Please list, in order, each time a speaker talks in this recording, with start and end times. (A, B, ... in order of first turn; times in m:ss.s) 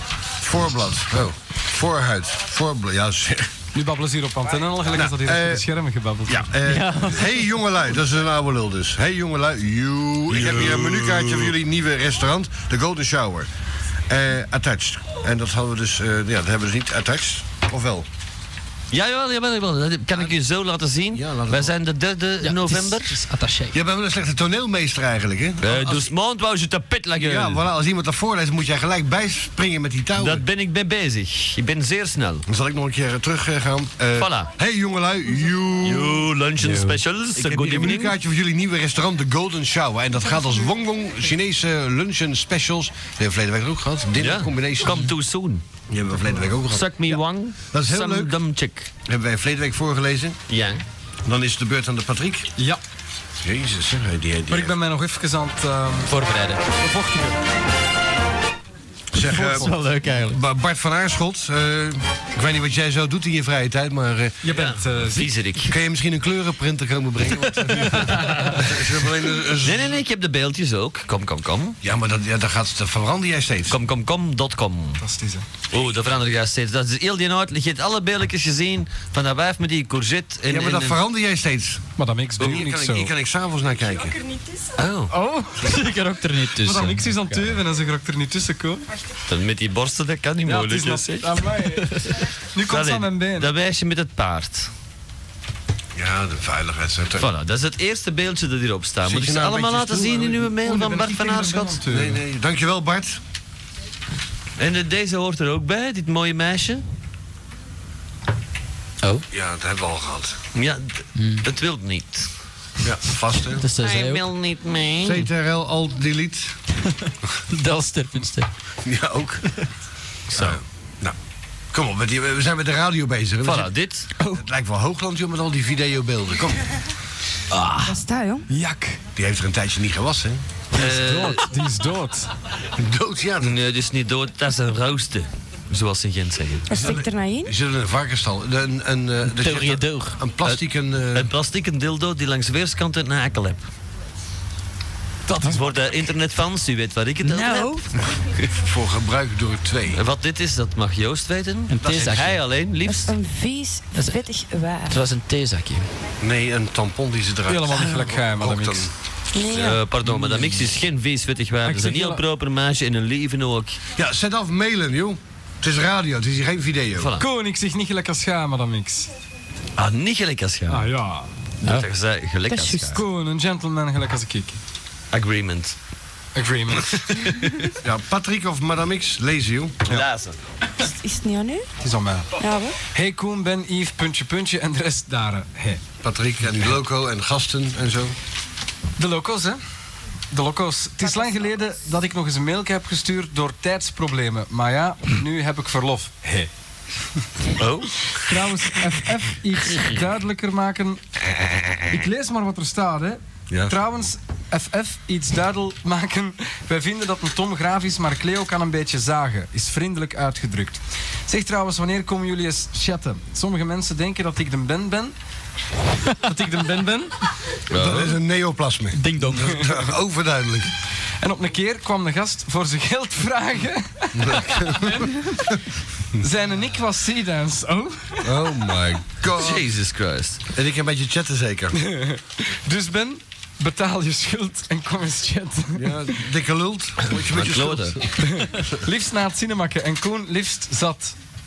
0:00.4-0:03.5 A
0:03.7-0:06.5 B
0:04.9-0:05.6 A
0:06.3-0:13.5 A
0:06.6-0:07.4 C
0:10.3-0:11.5 D
0:14.1-0:18.1 A
0:18.9-0:23.2 D
0:21.1-0:21.8 A
0:22.4-0:23.8 C
0:23.7-0:26.1 A
0:25.6-0:27.6 D
0:27.2-0:30.4 A
0:30.2-0:32.4 D
0:32.5-0:45.0 A
0:34.2-0:34.5 D
0:35.8-0:38.1 D
0:44.2-0:45.6 D
0:45.9-0:47.2 A
0:46.7-0:48.9 D
0:47.7-0:48.4 A
0:49.0-0:50.4 A
0:50.5-0:50.8 D
0:51.2-0:52.5 A
0:52.6-0:52.8 B
0:53.4-0:54.8 A
0:54.5-0:56.1 B
0:56.1-0:56.6 C
0:56.8-0:57.4 B
0:59.1-1:04.4 A
0:59.2-1:00.4 C
0:59.4-0:59.7 B
1:04.4-1:05.3 B
1:04.5-1:05.7 D
1:05.6-1:10.0 A
1:08.1-1:08.6 D
1:09.6-1:11.8 D
1:11.8-1:13.8 A
1:13.7-1:15.0 D
1:15.0-1:15.5 B
1:15.7-1:21.0 D
1:20.5-1:24.2 A
1:22.0-1:23.1 B
1:24.8-1:25.1 D
1:25.1-1:25.9 B
1:25.6-1:27.6 C
1:26.6-1:28.8 B
1:29.3-1:31.5 D
1:30.4-1:33.5 B
1:32.7-1:34.7 D
1:36.0-1:37.3 A
1:37.2-1:41.8 D
1:39.0-1:40.5 A
1:40.6-1:42.2 B
1:41.9-1:43.2 A
1:44.6-1:46.8 D
1:49.3-1:50.4 A
1:50.5-1:52.3 D
1:51.2-1:51.4 C
1:52.8-1:53.6 A
1:53.6-1:54.3 C
1:53.8-1:55.3 D
1:55.0-1:56.6 A
1:57.5-1:58.5 C
1:58.8-1:59.4 A
2:00.3-2:00.6 D
2:00.3-2:01.2 A
2:01.7-2:03.7 A
2:03.4-2:04.1 D
2:04.3-2:06.7 A
2:07.5-2:08.0 B
2:07.8-2:08.5 E
2:08.5-2:09.0 B
2:09.2-2:10.4 A
2:10.7-2:12.3 B
2:10.7-2:11.4 D
2:12.7-2:13.6 A
2:13.4-2:16.8 D
2:16.7-2:17.5 E
2:16.7-2:21.3 A
2:19.3-2:20.2 C
2:21.1-2:23.7 D
2:25.4-2:27.8 D
2:27.2-2:27.8 C
2:28.6-2:30.0 A
2:29.9-2:33.1 D
2:31.7-2:32.4 C
2:31.8-2:32.2 A
2:32.8-2:35.0 E
2:34.0-2:34.2 C
2:34.9-2:35.9 C
2:36.2-2:38.9 A
2:37.5-2:38.9 B
2:39.3-2:39.8 E
2:39.5-2:43.8 D
2:40.1-2:40.6 B
2:41.6-2:42.2 B
2:44.0-2:47.1 A
2:47.0-2:47.3 D
2:47.2-2:49.1 B
2:49.8-2:50.9 D
2:50.7-2:51.3 B
2:51.6-2:53.0 D
2:52.5-2:52.8 E
2:52.9-2:54.6 B
2:55.1-2:55.8 D
2:56.4-2:57.4 B
2:57.2-2:57.5 D
2:57.8-3:00.0 A
2:59.9-3:00.4 D
3:00.8-3:01.7 E
3:01.8-3:05.8 B
3:02.4-3:02.8 E
3:06.0-3:08.2 A
3:09.0-3:09.6 B
3:10.3-3:16.5 B
3:11.0-3:11.4 E
3:17.6-3:18.3 D
3:18.2-3:21.0 B
3:21.4-3:21.9 A
3:21.9-3:35.2 B
3:36.2-3:37.1 B
3:37.7-3:38.2 D
3:37.7-3:40.7 A
3:39.0-3:39.6 C
3:41.2-3:45.5 B
3:44.2-3:45.3 A
3:46.2-3:48.4 B
3:48.2-3:49.7 A
3:49.4-3:50.4 D
3:50.5-3:51.8 A
3:51.8-3:56.0 B
3:55.8-3:58.1 A
3:57.1-3:58.1 D
3:58.2-4:01.2 B